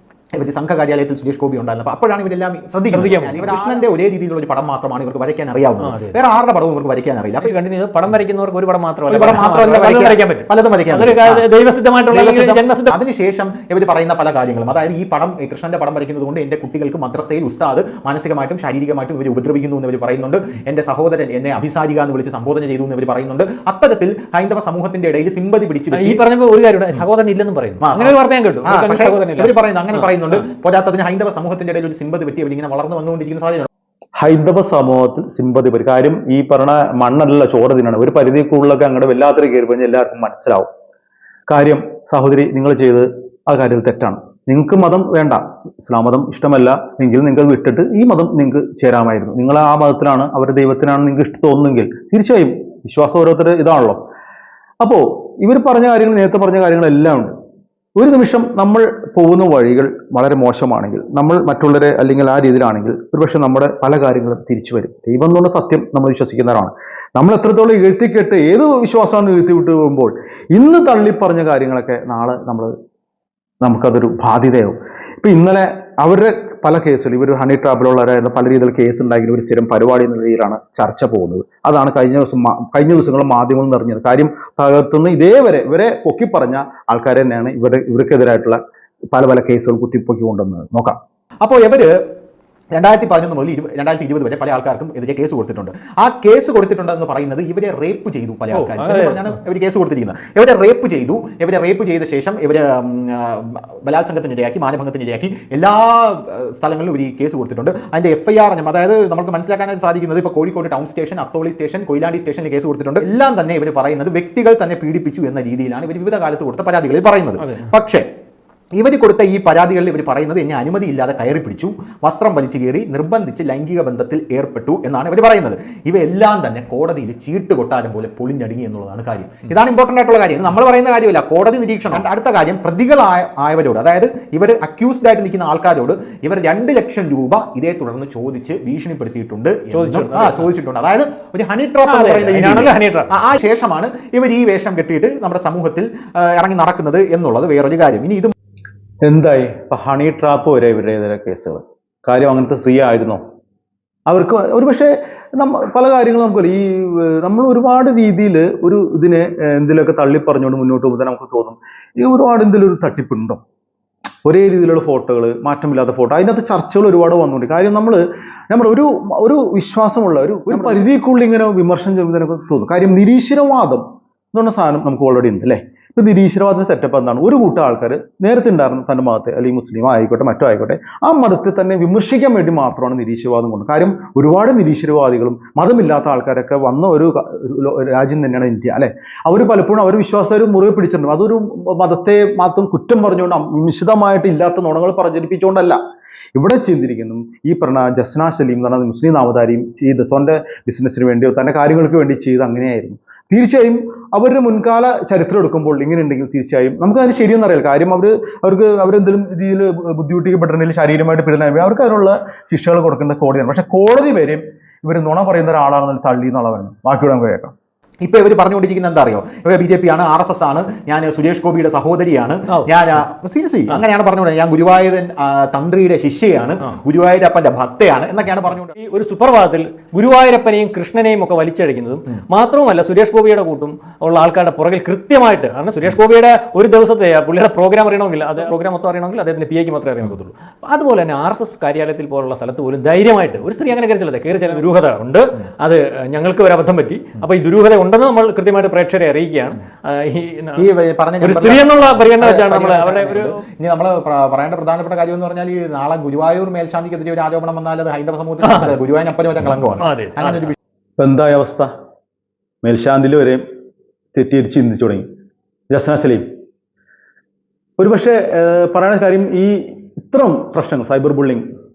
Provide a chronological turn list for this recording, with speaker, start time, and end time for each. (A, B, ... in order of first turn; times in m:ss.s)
0:00.3-0:07.6 A
0:02.9-0:03.7 B
0:05.8-0:06.2 B
0:07.4-0:13.0 B
0:09.1-0:11.5 A
0:12.1-0:26.2 A
0:25.9-0:30.0 B
0:27.8-0:33.7 A
0:34.2-0:40.7 C
0:41.5-0:54.0 C
0:54.8-0:57.3 C
0:58.0-1:12.7 C
1:13.6-1:28.6 C
1:29.1-1:31.0 C
1:31.4-1:32.0 A
1:32.7-1:58.0 A
1:38.5-1:39.2 B
1:57.4-1:57.7 B
1:58.8-2:28.3 A
2:19.7-2:20.4 B
2:21.8-2:23.1 B
2:29.0-2:33.2 C
2:34.1-2:43.4 C
2:44.2-3:15.8 C
3:16.3-3:37.5 C
3:38.0-3:48.7 A
3:48.8-4:10.7 B
4:10.6-4:20.6 A
4:11.2-4:13.4 B
4:18.4-4:18.7 B
4:19.8-4:20.5 B
4:21.0-4:21.7 C
4:22.6-4:23.4 C
4:24.1-4:25.0 C
4:25.7-4:26.3 C
4:27.8-4:31.4 C